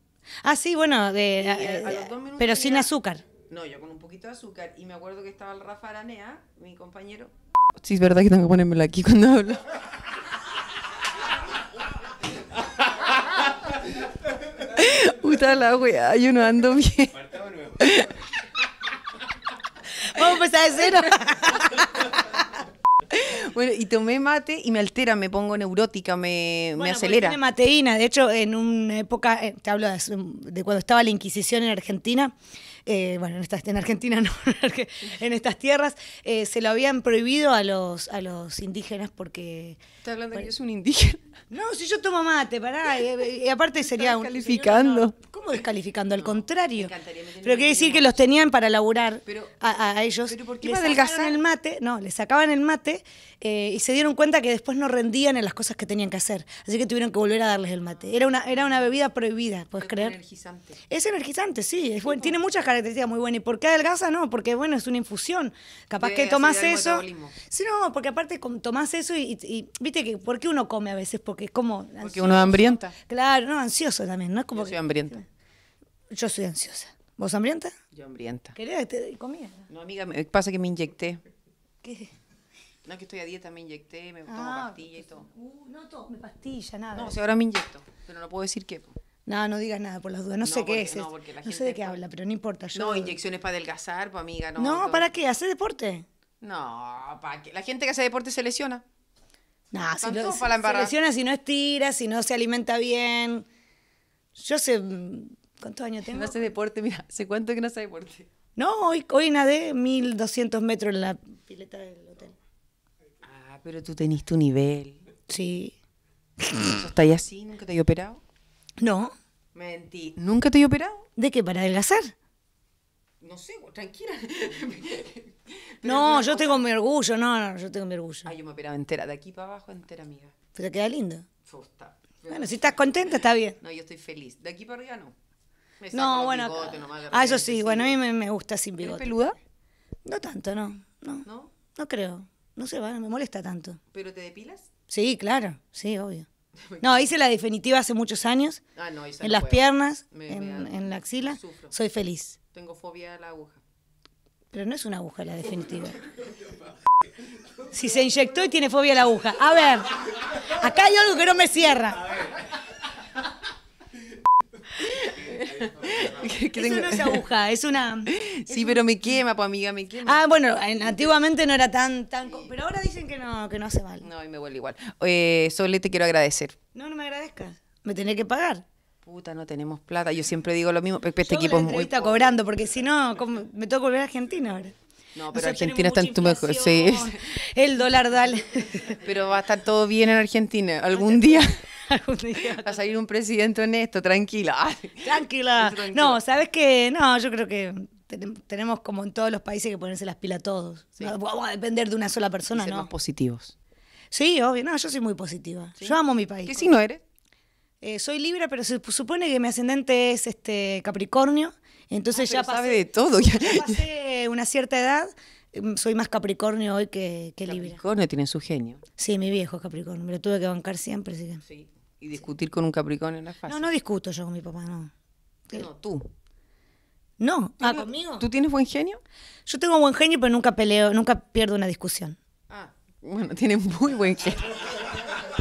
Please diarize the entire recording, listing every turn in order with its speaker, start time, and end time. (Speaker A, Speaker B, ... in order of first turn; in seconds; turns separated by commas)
Speaker A: 0.4-3.2, Speaker B: 1.3-2.9, Speaker B: 3.4-9.8, Speaker B: 14.6-18.2, Speaker A: 19.9-22.4, Speaker B: 23.1-27.4, Speaker A: 26.8-32.3, Speaker A: 32.9-39.8, Speaker B: 40.0-41.3, Speaker A: 41.5-60.1, Speaker B: 43.8-45.1, Speaker B: 46.2-48.2, Speaker B: 49.2-49.5, Speaker B: 50.3-51.4, Speaker B: 59.8-60.8, Speaker A: 60.9-75.2, Speaker B: 66.0-67.4, Speaker B: 72.0-72.9, Speaker B: 74.5-75.2, Speaker A: 76.1-77.7, Speaker B: 77.9-78.6, Speaker A: 78.5-79.7, Speaker B: 79.7-81.2, Speaker A: 81.8-82.1, Speaker B: 82.8-85.2, Speaker A: 84.3-87.2, Speaker B: 86.9-89.0, Speaker A: 89.2-93.1, Speaker B: 90.4-92.0, Speaker B: 92.7-95.1, Speaker A: 94.6-96.0, Speaker B: 96.4-98.8, Speaker A: 99.7-103.5, Speaker B: 100.0-100.9, Speaker A: 104.3-106.5, Speaker B: 106.0-108.3, Speaker A: 108.6-112.4, Speaker B: 113.2-115.0, Speaker A: 115.3-115.7, Speaker A: 116.4-116.8, Speaker B: 116.6-118.2, Speaker A: 118.8-119.1, Speaker B: 119.5-121.1, Speaker A: 121.2-122.1, Speaker B: 123.2-126.6, Speaker A: 125.8-128.3, Speaker B: 128.2-130.3, Speaker A: 130.5-131.3, Speaker B: 131.4-135.1, Speaker A: 132.3-133.6, Speaker B: 135.8-138.0, Speaker A: 135.9-139.0, Speaker B: 138.8-139.3, Speaker A: 140.0-143.8, Speaker B: 141.2-141.5, Speaker B: 143.9-144.7, Speaker A: 144.9-146.3, Speaker B: 146.6-147.1, Speaker A: 146.8-148.6, Speaker B: 148.8-151.7, Speaker A: 149.2-152.4, Speaker B: 152.5-153.6, Speaker A: 154.5-156.0, Speaker A: 157.7-162.3, Speaker B: 164.7-167.2, Speaker A: 166.5-168.8, Speaker B: 168.1-170.2, Speaker A: 170.0-174.1, Speaker B: 174.0-176.6, Speaker A: 176.7-178.6, Speaker B: 179.0-182.3, Speaker A: 181.2-184.7, Speaker B: 185.1-187.2, Speaker A: 185.3-189.0, Speaker B: 189.0-191.6, Speaker A: 190.9-192.8, Speaker B: 192.5-196.2, Speaker A: 195.0-202.9, Speaker B: 202.5-203.5, Speaker A: 204.1-206.7, Speaker B: 205.8-207.0, Speaker A: 207.8-217.8, Speaker B: 212.1-213.8, Speaker B: 217.4-218.8, Speaker A: 219.0-221.4, Speaker B: 221.4-223.7, Speaker A: 223.4-224.9, Speaker B: 225.5-226.1, Speaker A: 227.2-228.2, Speaker B: 227.6-229.0, Speaker A: 229.4-232.2, Speaker B: 232.5-234.9